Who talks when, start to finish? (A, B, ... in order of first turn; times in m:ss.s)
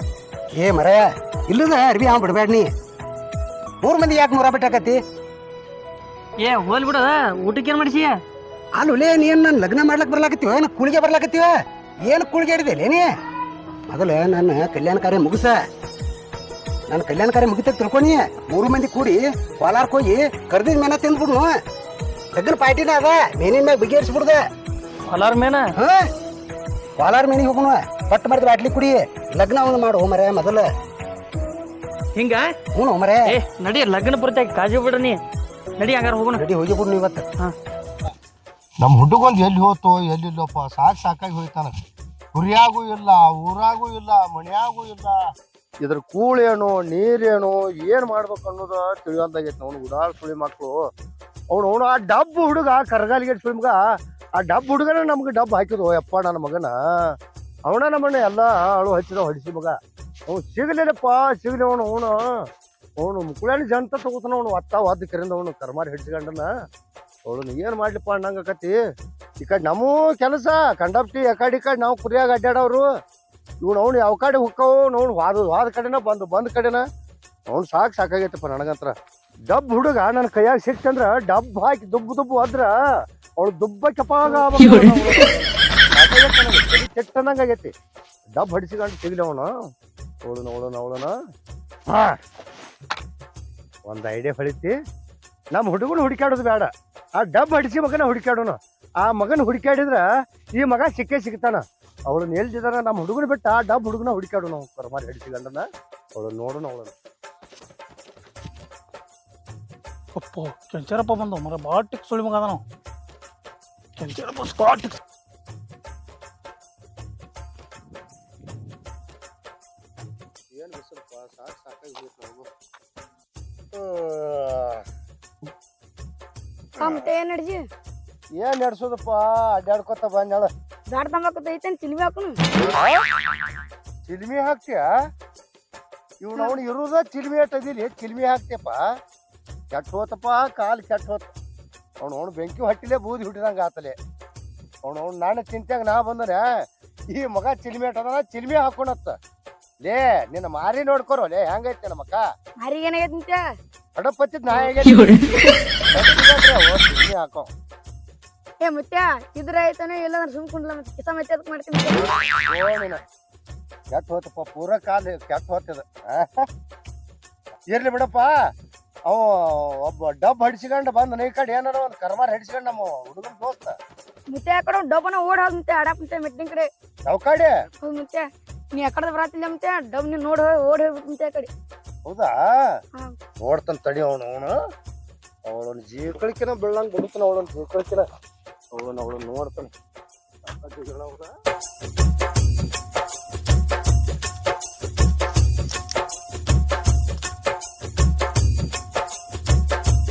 0:00.5-0:02.7 A
0:03.8-0:05.0 A
0:06.4-0:08.2 B
0:08.8-0:11.5 A
0:12.0-0:13.0 A
0:13.9-0:15.6 A
0:16.9-0:21.5 A
0:22.3-0:24.4 A
0:25.1-0:25.7 B
0:25.8-0:26.1 A
0:27.0-0:30.6 A
0:32.1-0:32.5 B
0:32.8-0:33.3 A
0:33.3-0:35.2 B
0:35.8-0:36.4 B
0:36.3-0:37.2 A
0:38.8-0:41.7 C
0:42.3-0:45.2 C
0:45.8-0:50.8 C
0:51.5-0:53.8 C
0:54.4-0:57.1 C
0:57.6-0:59.8 C
1:00.3-1:02.2 C
1:03.0-1:06.5 C
1:07.3-1:08.8 C
1:09.4-1:12.9 C
1:13.6-1:16.8 C
1:17.5-1:18.9 C
1:19.5-1:22.7 C
1:23.4-1:27.7 C
1:28.4-1:29.5 C
1:30.2-1:31.1 C
1:31.9-1:32.2 C
1:33.9-1:34.7 C
1:35.5-1:40.0 C
1:40.6-1:46.9 C
1:50.2-1:52.6 D
1:54.0-1:55.0 D
2:00.5-2:02.5 C
2:03.7-2:04.8 C
2:06.8-2:07.6 E
2:06.8-2:07.1 C
2:08.4-2:10.5 C
2:10.9-2:12.4 E
2:12.7-2:13.0 C
2:14.0-2:14.8 C
2:16.2-2:18.8 C
2:19.7-2:21.3 C
2:22.0-2:24.0 C
2:24.8-2:26.4 C
2:27.1-2:29.2 C
2:29.8-2:32.2 C
2:32.6-2:33.4 E
2:34.0-2:35.3 C
2:35.9-2:37.5 C
2:38.6-2:42.1 E
2:42.5-2:43.0 C
2:43.9-2:46.5 C
2:47.7-2:48.3 C
2:49.1-2:53.8 C
2:54.3-2:56.7 E
2:57.1-2:57.5 C
2:57.8-3:01.5 E
3:02.0-3:02.4 C
3:03.4-3:04.6 C
3:05.5-3:08.0 C
3:08.7-3:09.7 C
3:10.5-3:11.3 C